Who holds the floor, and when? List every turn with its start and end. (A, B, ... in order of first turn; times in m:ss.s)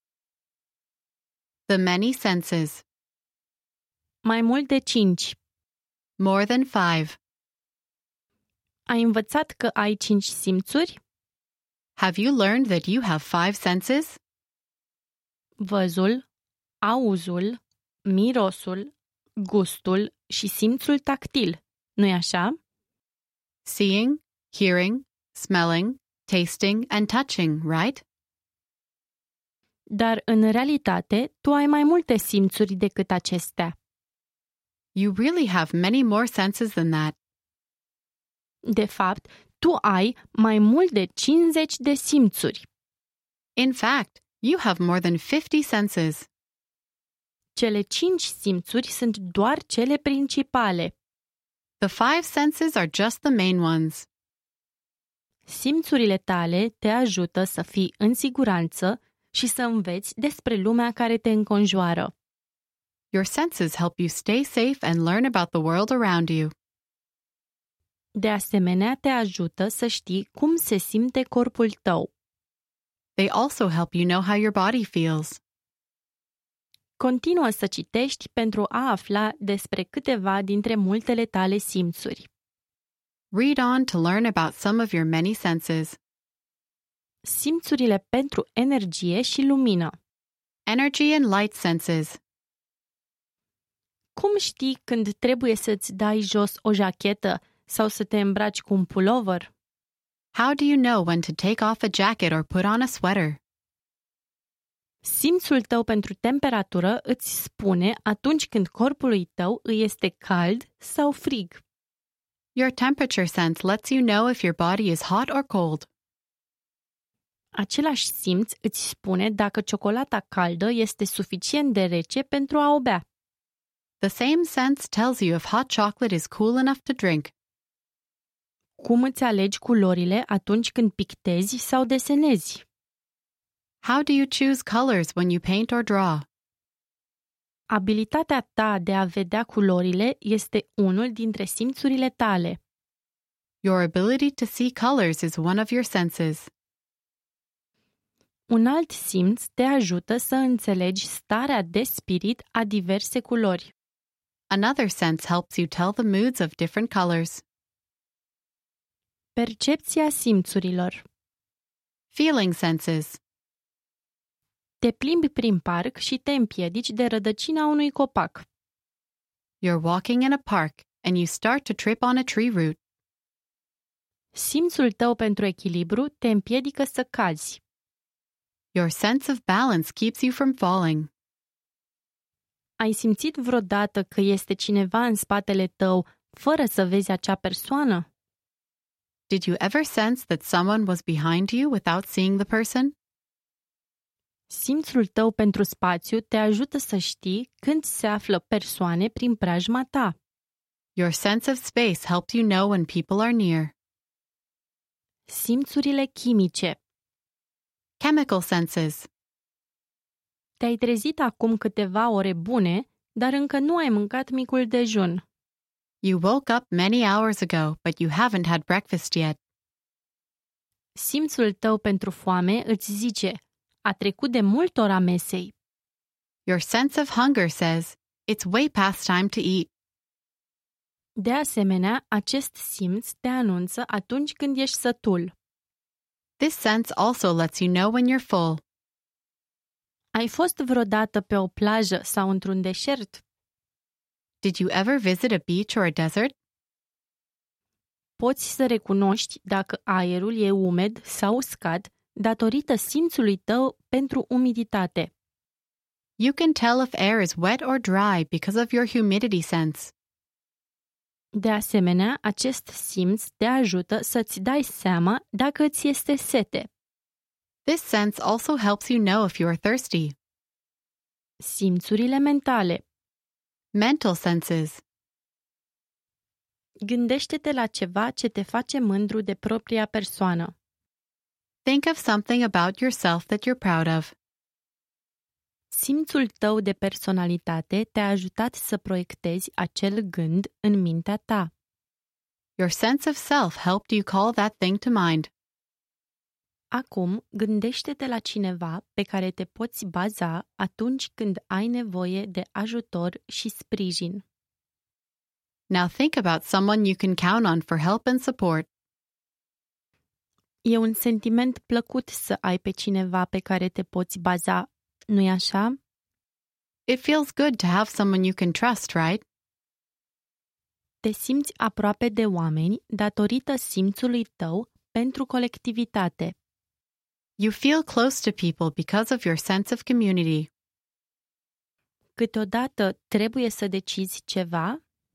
0:01.7-0:02.8 A
0:04.2-0:05.4 B
0:06.2-0:07.2 A
0:08.9-0:11.0 B
0:12.0-0:14.2 A
0:15.6-0:16.2 B
0:16.8-0:22.6 B
0:23.6-0:28.0 A
0:29.9-0:33.7 B
0:34.9-0:37.1 A
0:38.6-0:42.7 B
0:43.6-0:46.3 A
0:47.6-0:50.9 B
0:51.8-0:54.1 A
0:55.5-1:02.1 B
1:03.1-1:06.5 A
1:08.2-1:12.1 B
1:13.2-1:15.4 A
1:17.0-1:22.3 B
1:23.3-1:26.0 A
1:27.2-1:29.9 B
1:30.6-1:32.2 A
1:34.2-1:39.5 B
1:40.3-1:43.4 A
1:45.0-1:51.6 B
1:52.5-1:55.9 A
1:57.5-2:03.0 B
2:04.0-2:07.3 A
2:08.8-2:12.6 B
2:13.8-2:16.2 A
2:17.7-2:22.6 B
2:23.6-2:26.5 A
2:28.5-2:33.7 B
2:34.5-2:37.4 A
2:39.4-2:41.0 B
2:42.1-2:43.2 A
2:44.8-2:48.4 B
2:49.6-2:52.8 A
2:54.3-2:57.6 B
2:58.7-3:01.1 A
3:02.8-3:08.0 B
3:09.3-3:12.9 A
3:14.5-3:20.2 B
3:21.0-3:23.7 A
3:25.3-3:26.8 B
3:28.0-3:29.1 A
3:30.6-3:35.2 B
3:36.0-3:39.4 A
3:41.0-3:45.5 B
3:46.4-3:49.7 A
3:51.2-3:55.3 B
3:56.4-3:58.6 A
4:00.1-4:03.2 B
4:04.4-4:06.3 A
4:08.2-4:15.1 B
4:16.2-4:19.9 A
4:21.3-4:26.7 B
4:27.6-4:30.2 A
4:31.4-4:32.8 B
4:33.7-4:34.8 A
4:36.8-4:40.5 B
4:41.6-4:44.1 A
4:45.7-4:51.5 B
4:52.6-4:55.3 A
4:56.7-5:04.2 B
5:05.7-5:08.7 A
5:10.6-5:15.8 B
5:16.9-5:19.2 A
5:21.0-5:26.3 B
5:27.4-5:30.5 A
5:32.2-5:34.8 B